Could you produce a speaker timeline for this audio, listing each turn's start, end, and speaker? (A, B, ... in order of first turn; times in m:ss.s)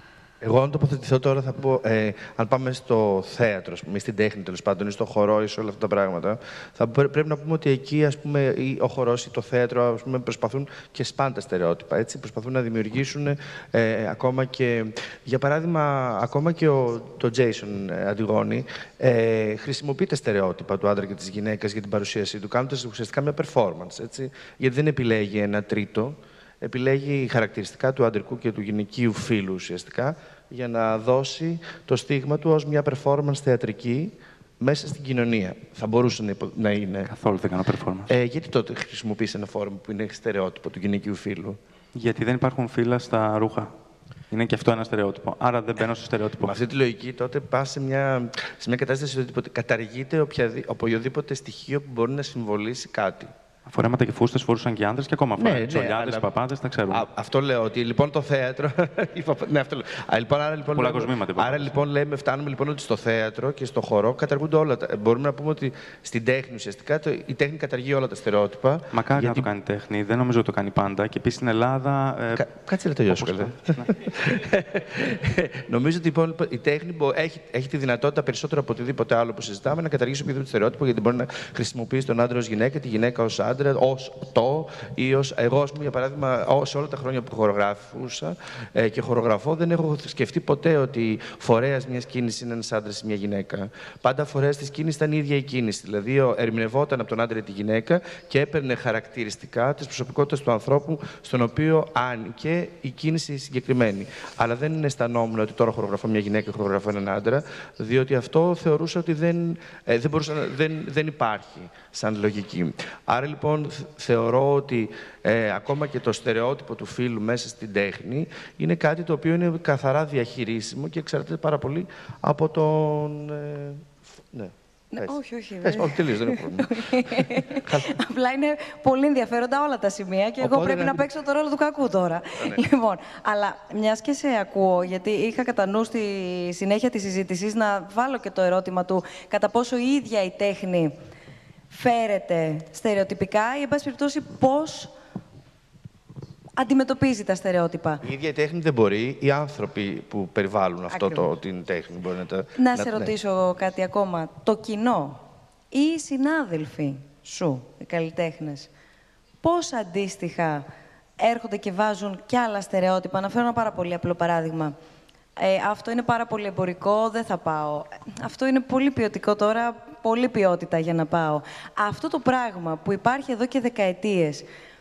0:00.4-0:37.1 A
0:37.1-0:38.1 B
0:38.1-0:41.6 A
0:42.0-0:43.7 B
0:44.3-0:46.6 B
0:46.4-0:53.3 A
0:53.7-0:57.0 B
0:55.4-0:56.3 A
0:56.9-1:09.5 A
1:00.7-1:01.7 B
1:08.9-1:12.5 B
1:12.4-2:07.9 A
1:13.0-1:14.1 B
2:04.9-2:21.0 C
2:10.4-2:11.1 A
2:12.4-2:12.6 A
2:21.7-2:24.9 C
2:26.6-2:28.0 C
2:28.0-2:33.2 A
2:30.9-2:31.3 C
2:32.6-2:35.2 C
2:35.7-2:38.7 C
2:39.4-2:40.7 C
2:41.2-2:44.8 C
2:45.4-2:54.5 C